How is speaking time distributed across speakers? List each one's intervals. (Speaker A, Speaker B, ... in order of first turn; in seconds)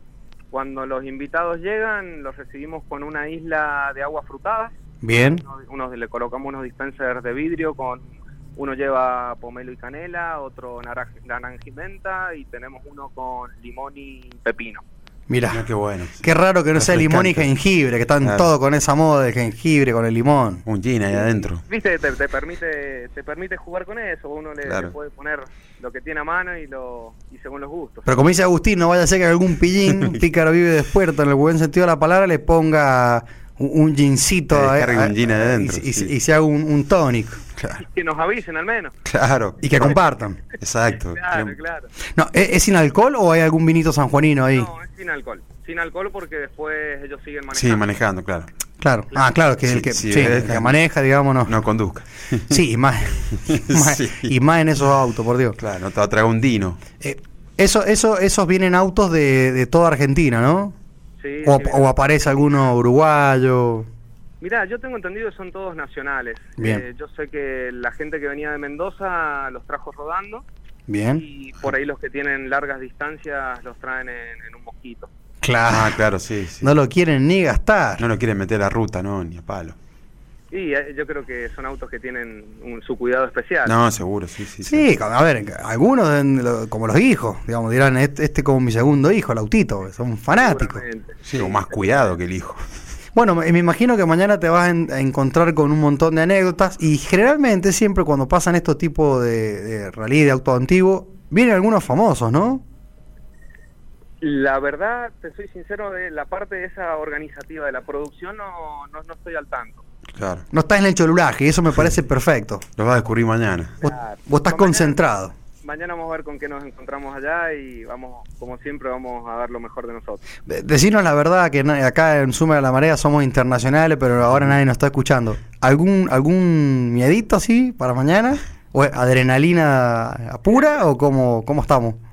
Speaker A: 0.5-14.8, 21.1-28.1, 37.8-39.0, 41.0-41.9, 44.5-47.9, 61.2-62.7, 64.4-70.4, 71.2-75.1, 80.5-83.8, 90.3-92.1, 104.2-109.8, 113.8-115.0, 115.6-120.2
Speaker B: 5.0-5.4, 15.3-15.6, 16.2-20.6, 28.1-37.4, 39.6-40.4, 42.1-44.7, 48.8-51.5, 52.5-55.6, 57.0-60.8, 61.5-63.9, 66.6-66.8, 70.9-71.2, 75.4-76.0, 76.6-78.0, 84.6-90.8, 93.2-102.6, 110.5-112.6, 114.3-115.3, 120.5-132.0
Speaker C: 15.5-17.5, 18.2-18.5, 20.7-21.6, 24.6-24.9, 34.5-36.1, 39.1-40.0, 40.6-41.5, 47.5-48.5, 49.7-50.8, 51.5-52.6, 53.3-54.3, 55.6-56.8, 75.7-76.8, 78.0-79.8, 83.7-84.9, 91.3-92.6, 110.2-110.4, 112.8-113.8